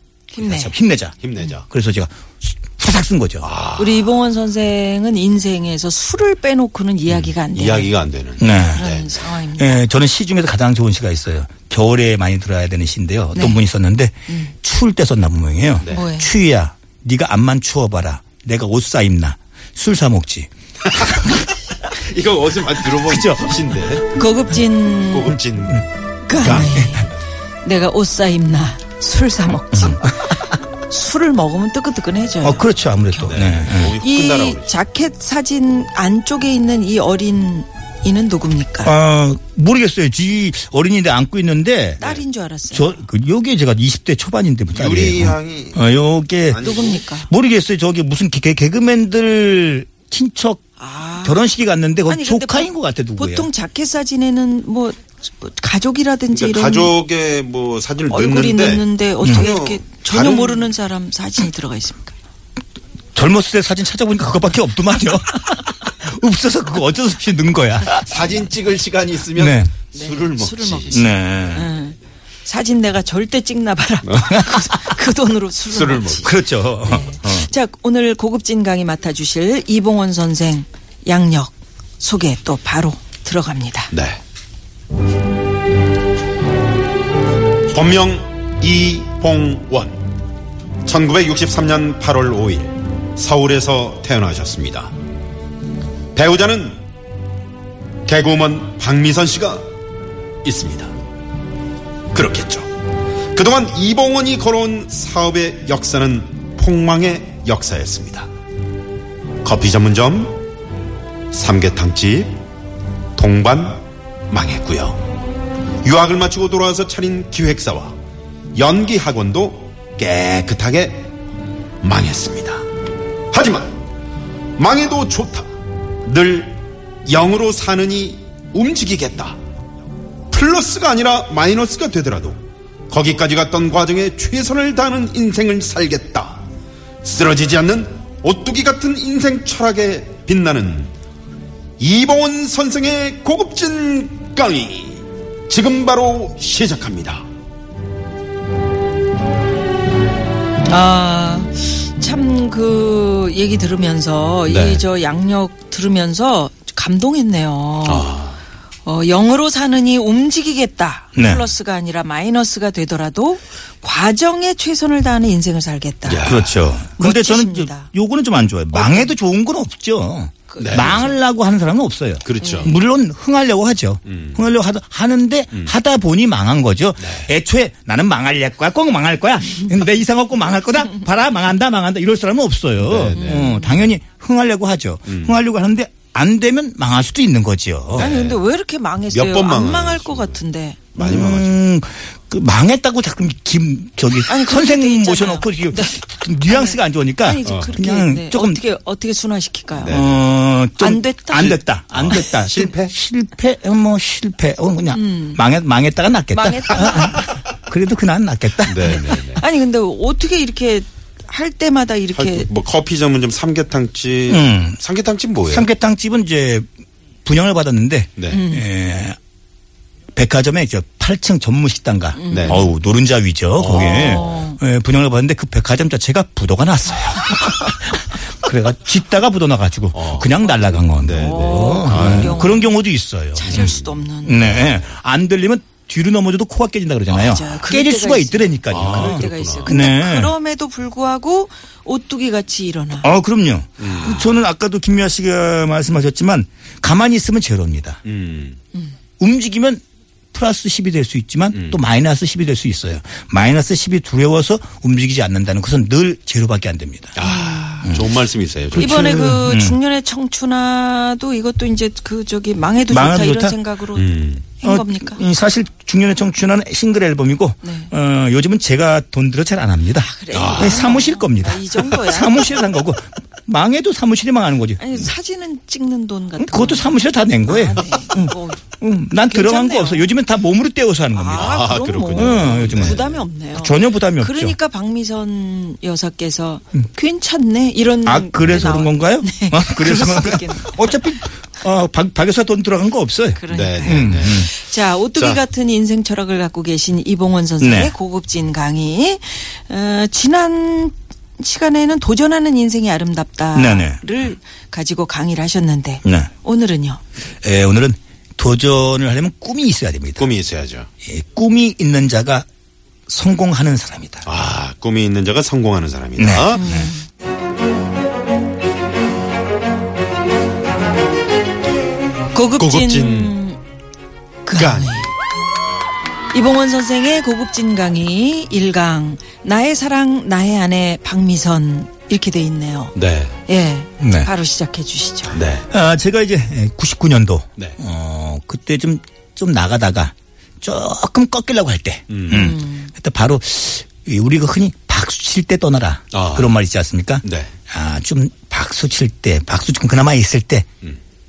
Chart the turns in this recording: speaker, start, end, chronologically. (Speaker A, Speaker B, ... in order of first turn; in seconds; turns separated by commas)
Speaker A: 0.3-0.7, Speaker B: 0.4-3.5, Speaker C: 1.2-1.7, Speaker C: 3.4-4.1, Speaker A: 3.8-7.9, Speaker C: 7.1-9.2, Speaker B: 8.4-8.9, Speaker A: 8.5-9.9, Speaker B: 9.6-21.5, Speaker A: 13.3-13.6, Speaker A: 14.3-14.5, Speaker A: 15.9-16.3, Speaker C: 21.9-24.1, Speaker B: 23.1-23.8, Speaker A: 24.1-25.4, Speaker C: 25.0-25.9, Speaker A: 26.2-33.4, Speaker B: 26.3-27.1, Speaker B: 29.7-30.2, Speaker B: 32.4-34.0, Speaker C: 33.2-34.8, Speaker A: 34.0-38.9, Speaker B: 38.8-42.1, Speaker A: 42.0-43.0, Speaker B: 42.7-50.6, Speaker C: 44.7-45.9, Speaker C: 46.5-47.0, Speaker A: 46.6-47.3, Speaker A: 50.8-51.4, Speaker B: 51.2-53.5, Speaker A: 52.1-56.9, Speaker C: 56.3-60.7, Speaker A: 58.1-62.2, Speaker B: 59.2-59.5, Speaker B: 63.1-68.2, Speaker C: 68.0-71.1, Speaker B: 69.3-69.7, Speaker A: 70.0-83.9, Speaker B: 70.9-71.7, Speaker C: 75.7-76.3, Speaker B: 76.2-77.5, Speaker C: 83.9-84.2, Speaker C: 87.7-90.0, Speaker C: 90.8-94.9, Speaker C: 96.2-96.8, Speaker C: 98.1-99.7, Speaker C: 100.4-100.9, Speaker C: 102.1-102.7, Speaker C: 103.3-108.3, Speaker C: 109.4-110.4, Speaker C: 111.3-112.4, Speaker C: 113.2-115.0, Speaker C: 115.8-118.0, Speaker C: 118.5-121.1, Speaker C: 121.8-122.6, Speaker C: 123.3-123.8, Speaker C: 124.6-125.5, Speaker C: 126.0-129.4, Speaker C: 130.3-136.4, Speaker C: 137.0-140.9, Speaker C: 141.8-147.3, Speaker A: 150.7-158.1, Speaker C: 154.5-154.8, Speaker C: 157.8-158.4, Speaker A: 158.8-166.4, Speaker B: 161.2-161.5, Speaker C: 166.1-166.7, Speaker B: 166.2-188.1, Speaker A: 166.9-167.9, Speaker A: 168.7-169.1, Speaker A: 170.5-171.2, Speaker C: 170.6-171.1, Speaker C: 172.2-172.7, Speaker A: 172.4-172.8, Speaker C: 174.1-174.4, Speaker C: 177.0-177.3, Speaker C: 182.8-183.9, Speaker A: 183.2-183.6, Speaker C: 185.1-185.4, Speaker C: 187.9-188.4, Speaker A: 187.9-190.8, Speaker C: 189.1-190.4, Speaker C: 190.9-191.6, Speaker B: 191.0-198.6, Speaker A: 194.3-200.0, Speaker C: 197.4-197.7, Speaker C: 199.7-200.2, Speaker B: 199.9-209.2, Speaker A: 200.8-201.6, Speaker C: 201.4-202.9, Speaker A: 204.9-205.4, Speaker A: 206.3-207.3, Speaker C: 208.7-209.4, Speaker A: 208.8-212.5, Speaker C: 212.1-215.7, Speaker B: 214.3-214.8, Speaker B: 215.5-216.7, Speaker B: 217.2-219.2, Speaker C: 218.2-218.4, Speaker A: 218.3-218.7, Speaker B: 220.2-233.7, Speaker A: 222.2-222.7, Speaker C: 222.3-222.7, Speaker C: 223.6-224.4, Speaker A: 223.8-224.6, Speaker C: 229.9-232.4, Speaker A: 231.2-232.8, Speaker A: 233.3-234.6, Speaker C: 233.4-234.9, Speaker B: 234.2-240.3, Speaker A: 237.1-243.1, Speaker C: 238.7-239.7, Speaker B: 243.0-248.0, Speaker C: 243.8-244.2, Speaker C: 248.1-248.6, Speaker B: 249.2-249.8, Speaker B: 250.3-257.2, Speaker C: 251.5-251.8, Speaker C: 257.2-259.3, Speaker A: 257.2-257.9, Speaker B: 258.7-259.8, Speaker A: 258.8-265.2, Speaker B: 262.9-263.6, Speaker C: 263.9-264.5, Speaker B: 264.6-275.1, Speaker A: 267.6-267.9, Speaker A: 269.9-272.6, Speaker C: 270.3-270.8, Speaker A: 274.8-278.7, Speaker B: 276.4-281.6, Speaker A: 279.2-280.1, Speaker A: 281.1-290.9, Speaker C: 281.4-283.2, Speaker B: 282.1-284.6, Speaker B: 288.1-294.5, Speaker A: 293.4-307.0, Speaker C: 293.5-294.5, Speaker C: 295.1-295.4, Speaker B: 297.6-297.9, Speaker B: 303.5-304.0, Speaker B: 306.0-306.3, Speaker B: 307.4-310.3, Speaker C: 310.2-310.9, Speaker B: 311.0-312.5, Speaker B: 313.1-314.3, Speaker C: 314.2-316.7, Speaker B: 316.2-316.9, Speaker A: 316.5-317.1, Speaker A: 322.3-323.6, Speaker C: 322.6-323.4, Speaker A: 324.4-325.1, Speaker C: 324.6-325.1, Speaker A: 326.3-332.9, Speaker C: 332.9-333.4, Speaker A: 333.5-335.5, Speaker B: 334.0-334.3, Speaker C: 335.3-335.7, Speaker B: 335.7-350.7, Speaker C: 342.1-342.5, Speaker A: 342.3-342.9, Speaker C: 346.1-346.6, Speaker C: 347.2-347.5